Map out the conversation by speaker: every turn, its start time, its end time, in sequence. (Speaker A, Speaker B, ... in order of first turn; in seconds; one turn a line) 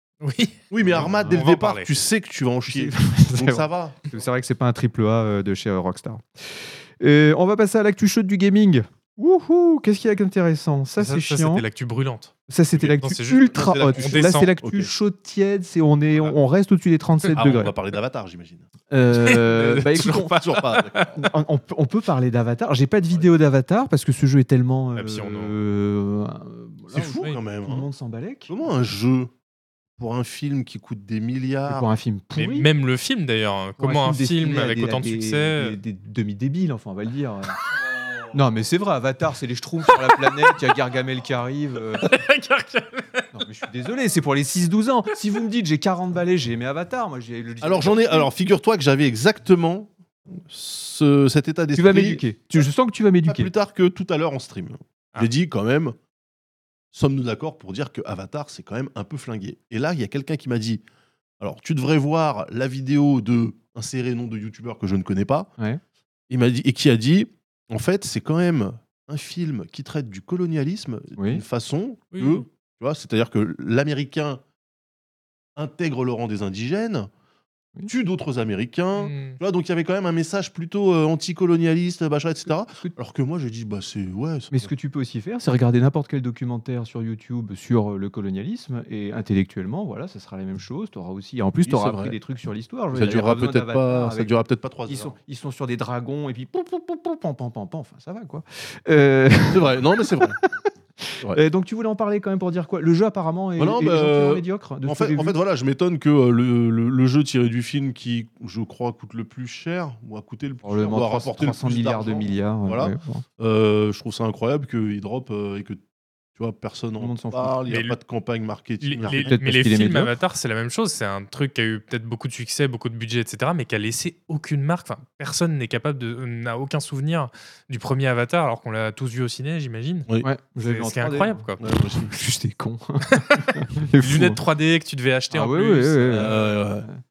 Speaker A: 0.2-1.9
Speaker B: 0.7-4.0
Speaker C: 0.9-1.4
Speaker C: 2.7-11.6
Speaker A: 11.0-14.5
Speaker C: 12.5-17.7
Speaker B: 13.5-14.9
Speaker B: 17.4-18.7
Speaker C: 18.9-20.4
Speaker A: 19.2-21.3
Speaker B: 20.0-21.1
Speaker C: 21.1-28.5
Speaker A: 25.0-25.6
Speaker B: 26.9-27.9
Speaker B: 28.5-29.3
Speaker B: 30.0-31.9
Speaker C: 31.7-32.7
Speaker A: 32.4-35.8
Speaker C: 33.8-37.6
Speaker C: 38.3-42.1
Speaker A: 40.0-40.5
Speaker A: 42.0-43.3
Speaker C: 43.3-48.3
Speaker B: 47.6-52.2
Speaker C: 51.7-53.5
Speaker B: 53.3-56.0
Speaker B: 56.9-60.8
Speaker B: 61.4-65.5
Speaker B: 66.3-74.4
Speaker C: 71.2-71.4
Speaker A: 72.1-72.5
Speaker B: 75.6-77.1
Speaker B: 77.9-84.7
Speaker A: 79.0-79.4
Speaker C: 82.7-83.0
Speaker C: 84.5-94.3
Speaker B: 91.7-92.2
Speaker B: 92.9-95.1
Speaker C: 94.9-105.4
Speaker B: 99.5-100.4
Speaker B: 103.6-115.8
Speaker C: 110.6-113.2
Speaker B: 116.4-119.3
Speaker C: 117.0-117.5
Speaker A: 117.7-118.0
Speaker A: 118.8-130.1
Speaker C: 119.1-120.1
Speaker C: 130.2-134.4
Speaker A: 130.6-131.6
Speaker B: 131.6-132.1
Speaker A: 133.1-136.5
Speaker C: 135.3-137.0
Speaker B: 136.1-136.9